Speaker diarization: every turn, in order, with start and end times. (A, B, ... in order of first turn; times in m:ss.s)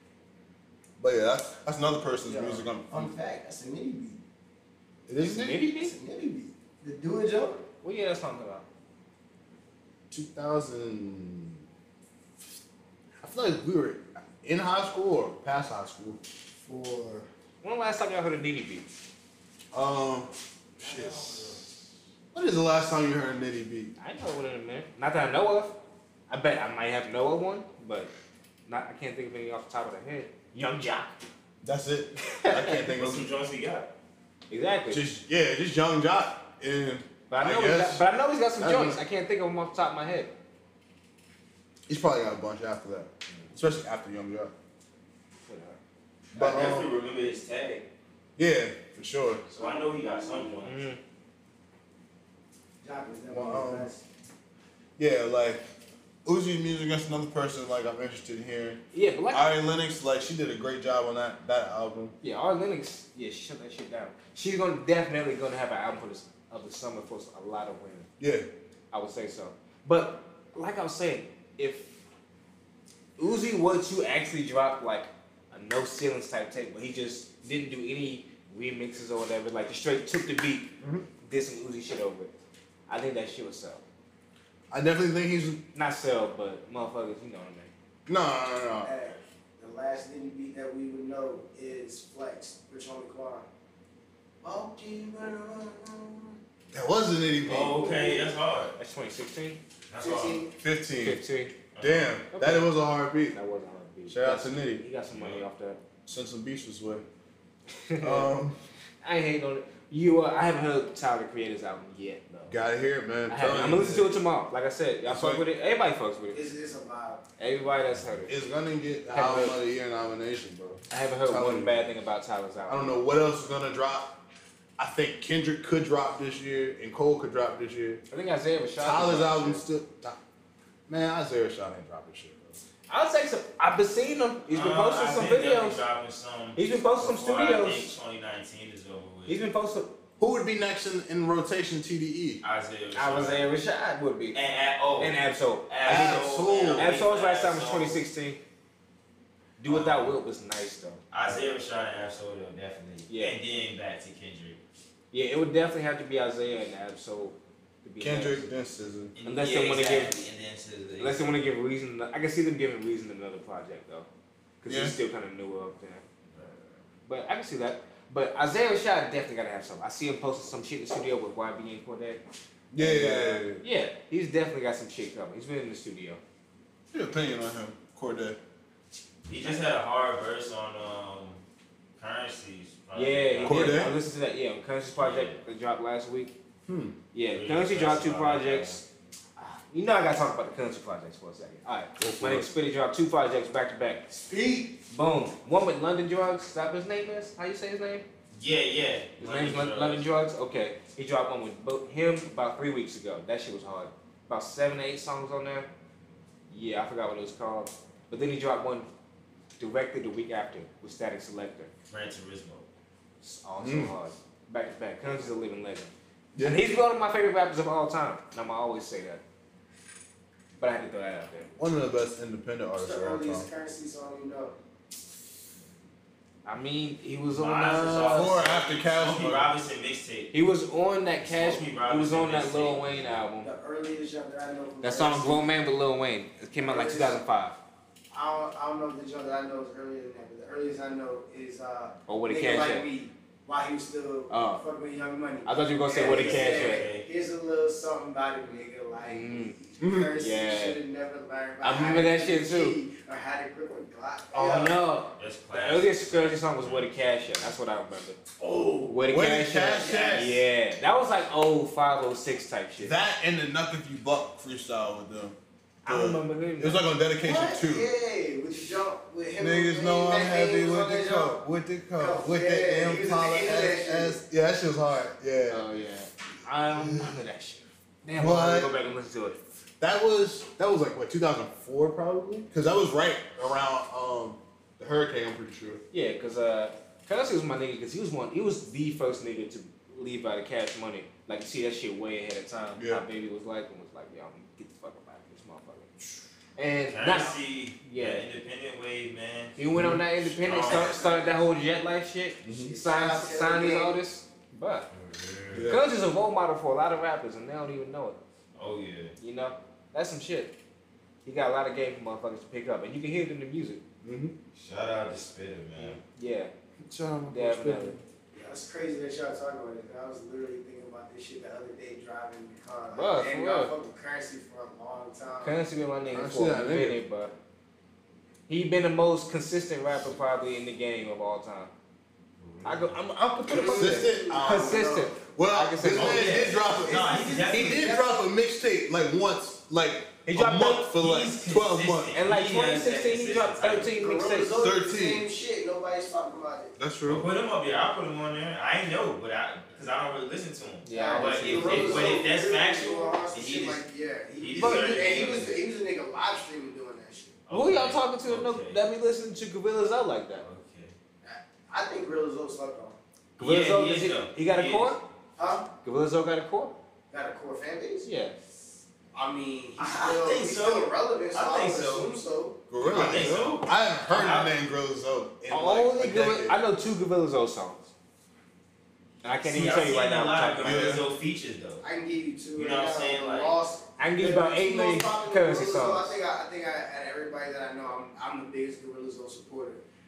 0:01.0-0:03.1 A
0:02.2-0:04.2 B
0:05.1-0:05.6 A
0:05.2-0:05.9 C
0:05.6-0:07.6 B
0:07.8-0:08.6 C
0:10.1-0:11.6 A
0:13.2-0:16.2 A
0:16.6-0:17.3 B
0:17.6-0:18.9 C
0:19.7-0:21.4 A
0:20.8-0:21.6 B
0:22.3-0:23.9 A
0:24.0-0:25.8 C
0:26.3-0:28.1 C
0:28.6-0:31.2 C
0:31.6-0:33.3 A
0:32.3-0:32.8 C
0:32.9-0:33.9 D
0:34.5-0:35.0 C
0:34.9-0:38.0 A
0:37.3-0:40.3 C
0:38.6-0:39.0 A
0:41.9-0:44.5 A
0:45.4-0:45.8 C
0:46.3-0:47.8 D
0:46.3-0:46.9 A
0:48.4-0:49.4 A
0:49.5-0:50.8 D
0:49.6-0:50.5 B
0:50.6-0:51.0 C
0:52.8-0:54.0 B
0:53.3-0:53.9 A
0:55.0-0:55.6 A
0:56.2-1:02.2 A
0:58.9-0:59.5 C
1:02.2-1:08.1 C
1:08.2-1:08.5 A
1:08.9-1:11.9 C
1:13.2-1:22.3 C
1:20.8-1:21.0 A
1:22.9-1:23.8 C
1:24.7-1:25.6 A
1:25.7-1:27.7 C
1:28.1-1:28.9 A
1:28.8-1:33.5 B
1:34.4-1:36.4 B
1:36.7-1:38.0 A
1:37.4-1:38.7 D
1:37.5-1:39.6 C
1:39.9-1:40.4 D
1:40.0-1:40.5 B
1:40.6-1:41.2 A
1:41.0-1:41.6 C
1:41.7-1:42.2 D
1:41.8-1:43.4 A
1:42.3-1:42.7 C
1:43.3-1:45.8 C
1:44.1-1:44.8 A
1:45.1-1:45.4 D
1:46.0-1:47.0 A
1:47.8-1:48.3 C
1:48.0-1:48.6 A
1:49.0-1:52.6 C
1:52.5-1:54.2 A
1:53.3-1:56.4 C
1:55.0-1:55.4 A
1:56.3-1:57.2 B
1:57.4-1:58.3 C
1:58.3-2:01.9 A
1:59.1-1:59.6 C
2:00.9-2:03.0 C
2:02.7-2:04.2 A
2:04.8-2:08.0 A
2:08.1-2:09.6 C
2:08.8-2:10.2 A
2:10.9-2:12.6 A
2:12.9-2:15.8 C
2:14.5-2:19.4 D
2:16.6-2:17.9 C
2:19.3-2:20.0 C
2:20.2-2:22.4 A
2:22.4-2:23.4 D
2:22.9-2:24.4 C
2:24.3-2:25.2 D
2:25.0-2:28.4 C
2:25.7-2:28.0 D
2:25.8-2:26.9 A
2:29.6-2:31.0 C
2:29.7-2:30.2 D
2:31.1-2:34.6 D
2:33.1-2:33.4 C
2:35.1-2:38.5 C
2:38.0-2:39.1 A
2:39.2-2:41.4 D
2:39.2-2:40.2 C
2:41.0-2:44.1 C
2:44.6-2:46.0 C
2:44.6-2:45.0 A
2:47.1-2:52.2 C
2:52.7-2:53.6 A
2:52.8-2:56.2 C
2:56.9-2:58.4 A
2:59.3-3:01.4 D
3:02.0-3:03.9 D
3:02.9-3:06.3 C
3:03.4-3:04.0 A
3:05.0-3:05.4 D
3:06.7-3:07.0 A
3:07.1-3:08.8 C
3:07.3-3:08.8 D
3:09.4-3:14.1 C
3:12.0-3:12.5 A
3:14.1-3:14.7 B
3:14.9-3:18.0 C
3:18.3-3:20.1 D
3:19.2-3:25.7 C
3:26.5-3:28.9 C
3:29.6-3:31.7 C
3:31.9-3:32.6 D
3:33.2-3:39.2 C
3:33.6-3:33.9 A
3:36.3-3:36.6 A
3:40.6-3:41.5 C
3:41.6-3:43.5 A
3:42.8-3:44.6 B
3:46.4-3:48.4 C
3:47.3-3:50.3 D
3:47.9-3:49.5 A
3:50.3-3:53.5 C
3:51.2-3:53.3 D
3:53.4-3:55.5 B
3:54.8-3:57.6 C
3:56.6-3:57.2 B
3:58.1-4:14.8 B
4:02.1-4:02.8 C
4:04.3-4:04.6 C
4:05.4-4:06.9 C
4:06.0-4:07.0 D
4:09.0-4:09.6 C
4:09.8-4:10.2 A
4:10.2-4:10.8 C
4:11.6-4:12.8 C
4:14.3-4:18.2 C
4:15.2-4:17.3 D
4:18.4-4:18.9 B
4:18.8-4:23.0 C
4:19.0-4:20.4 A
4:19.7-4:20.3 B
4:22.8-4:27.9 A
4:25.8-4:26.9 C
4:27.2-4:31.4 B
4:29.4-4:35.6 A
4:32.0-4:34.2 B
4:35.5-4:39.4 C
4:38.2-4:38.7 A
4:39.8-4:45.8 A
4:45.9-4:55.9 C
4:52.8-4:53.0 A
4:56.6-4:58.2 C
4:56.9-4:59.6 D
4:59.6-5:04.9 C
4:59.7-5:00.0 A
5:00.2-5:01.3 D
5:00.6-5:01.1 B
5:02.4-5:02.7 A
5:02.5-5:04.0 B
5:04.9-5:05.7 D
5:05.5-5:05.8 A
5:05.7-5:08.2 C
5:08.5-5:09.1 D
5:09.2-5:10.5 C
5:11.2-5:13.8 C
5:14.0-5:14.4 A
5:14.5-5:16.0 D
5:15.8-5:16.5 C
5:16.9-5:18.0 A
5:17.3-5:18.0 C
5:18.3-5:25.6 B
5:22.9-5:23.7 C
5:25.4-5:27.3 C
5:26.1-5:27.0 A
5:28.5-5:31.7 C
5:32.4-5:32.9 D
5:32.6-5:36.5 C
5:33.5-5:35.1 B
5:33.5-5:42.2 A
5:35.9-5:37.9 D
5:36.1-5:38.2 B
5:40.2-5:40.9 C
5:41.0-5:43.9 D
5:42.1-5:44.5 C
5:43.9-5:46.7 B
5:44.6-5:45.2 A
5:46.8-5:47.3 A
5:47.0-5:53.8 D
5:50.8-5:52.2 C
5:50.9-5:57.4 B
5:54.4-5:55.6 D
5:54.6-5:54.9 C
5:57.4-5:58.8 D
5:57.5-6:00.4 C
6:00.4-6:00.9 D
6:01.2-6:03.0 B
6:03.4-6:05.0 C
6:03.4-6:05.0 D
6:05.4-6:05.7 B
6:05.8-6:06.8 C
6:07.1-6:08.1 B
6:08.0-6:08.4 C
6:09.1-6:12.6 B
6:09.8-6:12.1 D
6:12.7-6:16.6 A
6:12.8-6:14.5 D
6:15.5-6:17.8 C
6:19.2-6:21.0 C
6:19.4-6:21.8 D
6:20.6-6:21.0 A
6:21.8-6:29.8 B
6:22.5-6:23.5 D
6:24.0-6:26.1 C